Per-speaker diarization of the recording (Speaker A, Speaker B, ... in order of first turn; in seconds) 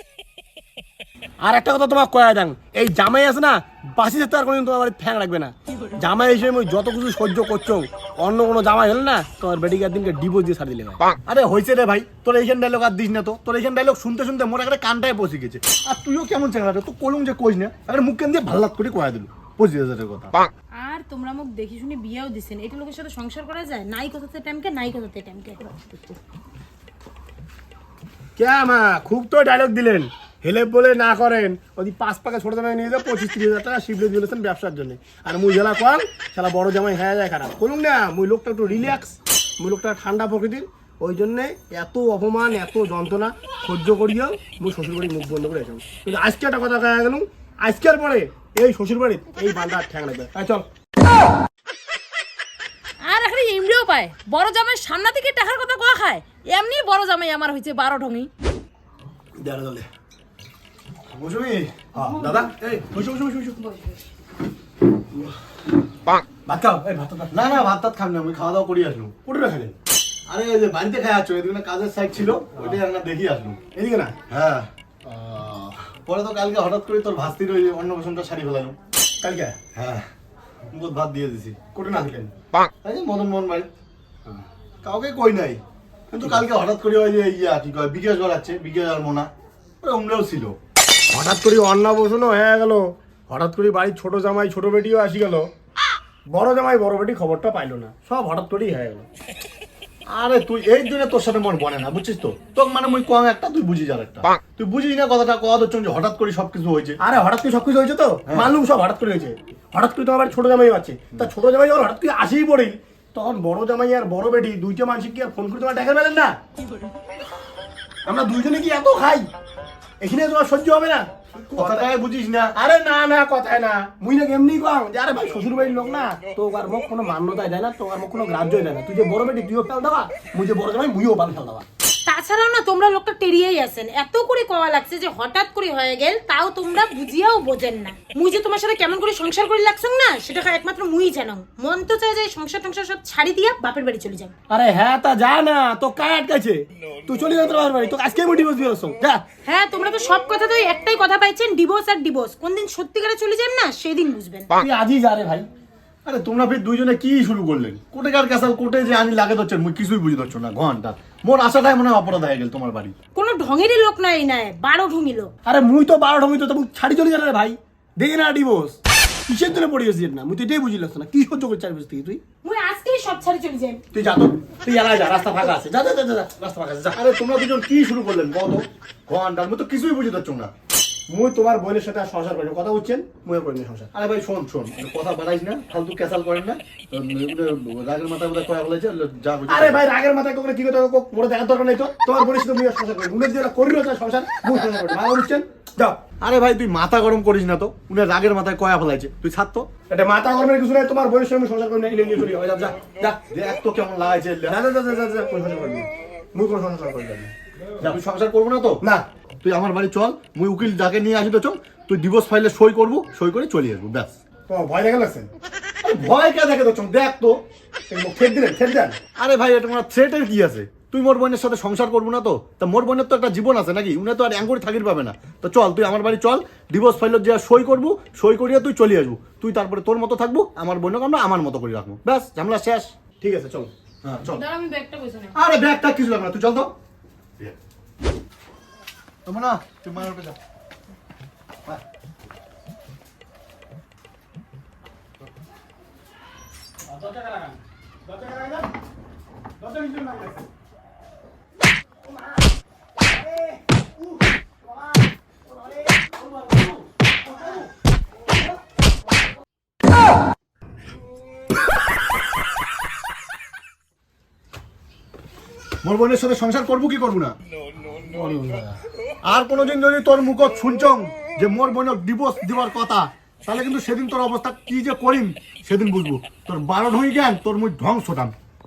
Speaker A: 1.4-11.0, 28.4-50.6, 59.4-59.9, 62.0-63.6, 66.3-67.7, 69.2-69.8, 72.5-72.8, 73.8-74.2, 75.1-75.8, 79.2-79.6, 81.7-82.3, 86.1-86.4, 91.1-95.5, 96.3-99.1, 107.0-116.4, 118.1-119.3, 120.0-121.9, 122.5-131.7, 144.5-149.2, 154.6-155.5, 165.5-172.2, 173.9-177.0, 181.1-183.9, 189.5-196.0, 199.9-203.2, 204.5-207.9, 214.5-215.3, 217.9-219.0, 233.2-233.7, 246.9-248.7, 249.6-250.4, 255.5-257.6, 267.9-268.8
Speaker B: 11.3-20.4, 61.1-61.9, 67.3-69.2, 70.3-73.6, 74.3-74.7, 76.0-78.8, 79.8-80.1, 80.7-81.6, 82.8-83.7, 84.8-85.6, 86.1-89.3, 89.8-90.6, 100.1-107.0, 108.3-108.5, 121.5-122.6, 156.1-162.9, 176.9-180.5, 183.9-189.8, 196.2-199.7, 203.3-204.6, 207.8-208.8, 209.4-214.2, 215.8-217.4, 219.2-232.9, 234.0-234.4, 235.3-236.7, 239.3-240.4, 265.8-267.4, 269.3-278.4
Speaker C: 20.8-26.2, 62.0-62.4, 132.1-144.3, 149.4-154.5, 163.2-165.3, 172.4-173.8, 234.3-235.3
Speaker D: 53.0-58.3